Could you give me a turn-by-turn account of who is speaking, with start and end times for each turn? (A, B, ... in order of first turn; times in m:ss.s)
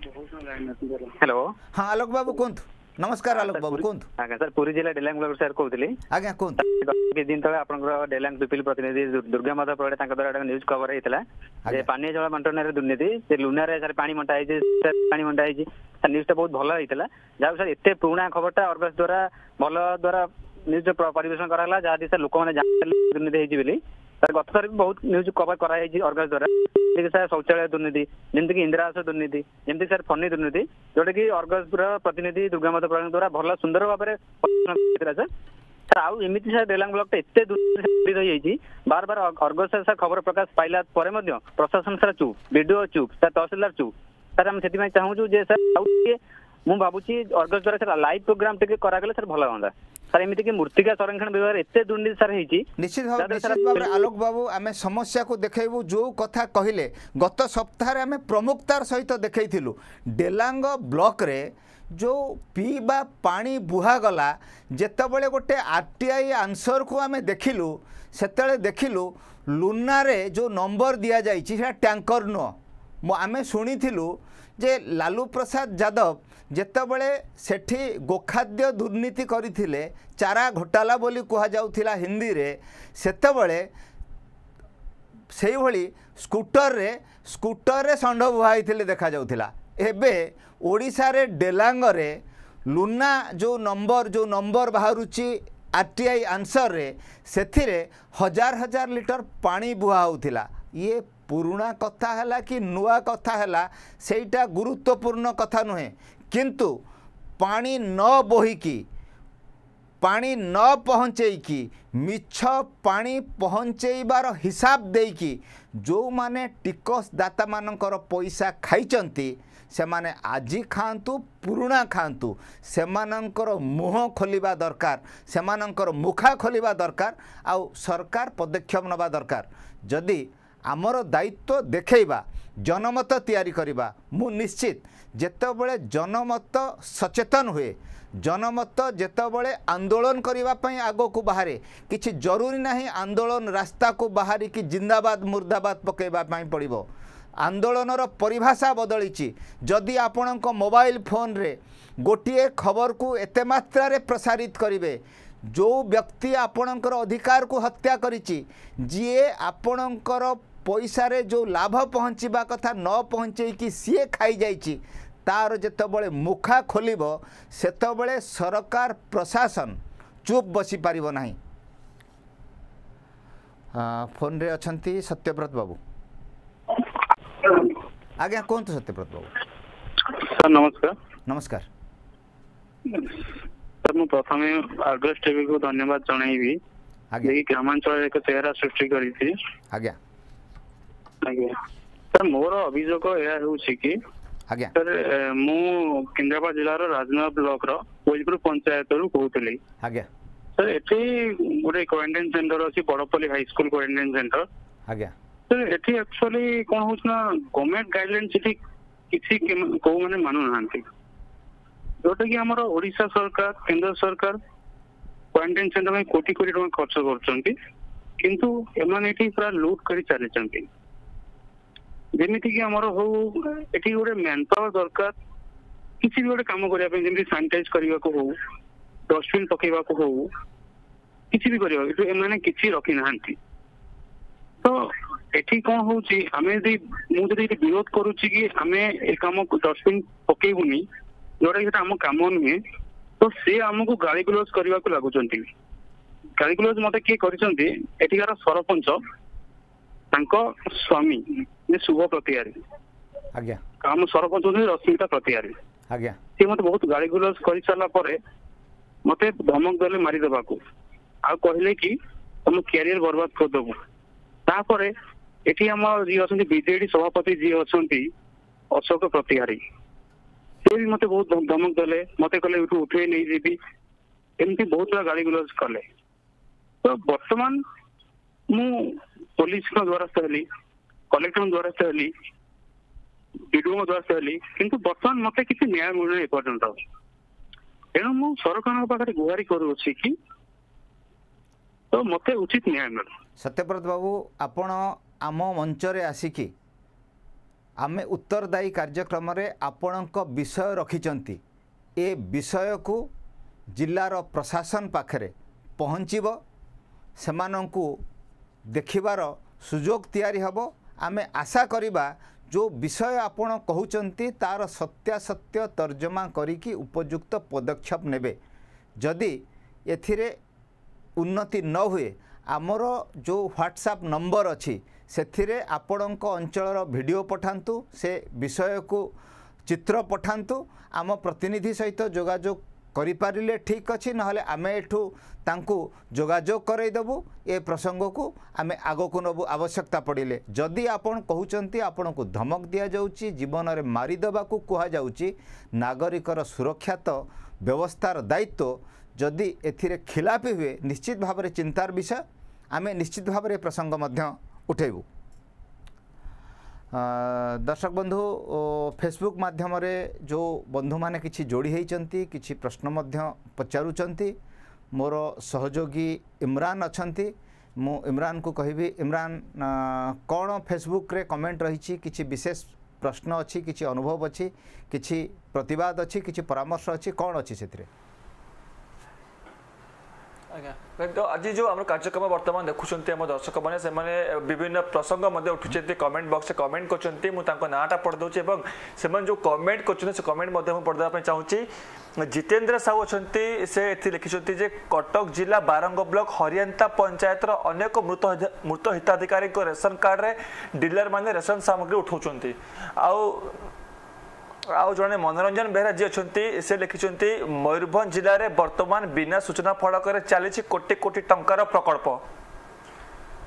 0:00.2-0:01.1 A
0:01.2-0:01.5 B
0:01.7-0:04.1 C
0:03.3-0:06.0 B
0:06.1-0:06.6 C
0:06.6-0:35.3 B
0:35.9-0:52.6 B
0:52.8-1:23.7 C
0:53.2-0:54.0 B
1:25.3-1:46.8 C
1:47.4-1:48.8 C
1:50.0-2:26.9 C
2:27.4-2:51.4 C
2:53.7-2:55.8 C
2:58.2-2:59.3 C
3:00.0-3:00.9 A
3:01.2-3:01.7 C
3:02.9-3:03.3 A
3:03.8-3:06.6 A
3:07.2-3:09.3 A
3:09.7-3:10.0 C
3:11.2-3:11.6 A
3:12.1-3:14.0 A
3:14.7-3:19.6 A
3:19.8-3:20.1 C
3:20.6-3:24.4 A
3:24.9-3:25.1 C
3:25.5-3:28.6 A
3:29.1-3:30.8 A
3:32.0-3:34.4 A
3:35.3-3:37.5 A
3:38.2-3:40.6 A
3:42.1-3:45.1 A
3:46.0-3:48.4 A
3:49.1-3:50.3 A
3:51.3-3:53.4 A
3:55.3-4:00.8 A
4:01.4-4:02.6 A
4:03.2-4:05.5 A
4:06.4-4:09.0 A
4:10.1-4:12.6 A
4:13.3-4:13.6 C
4:13.8-4:15.5 A
4:15.9-4:16.2 C
4:16.4-4:18.2 A
4:19.0-4:20.6 A
4:21.2-4:21.9 A
4:22.4-4:23.8 A
4:24.5-4:24.9 A
4:25.4-4:28.1 A
4:28.7-4:29.6 A
4:30.6-4:33.6 A
4:34.4-4:35.8 A
4:36.8-4:37.6 A
4:38.5-4:40.4 A
4:41.1-4:42.1 A
4:43.5-4:46.8 A
4:47.9-4:50.1 A
4:51.9-4:53.1 A
4:53.4-4:56.5 C
4:57.8-5:01.4 C
5:02.0-5:03.1 C
5:03.7-5:06.4 C
5:07.2-5:08.0 C
5:08.7-5:18.4 C
5:19.0-5:20.4 C
5:21.2-5:29.1 C
5:29.6-5:55.0 C
5:56.9-6:04.4 C
6:04.9-6:17.9 C
6:20.5-6:31.6 D
6:32.2-6:43.7 D
6:44.7-6:52.2 D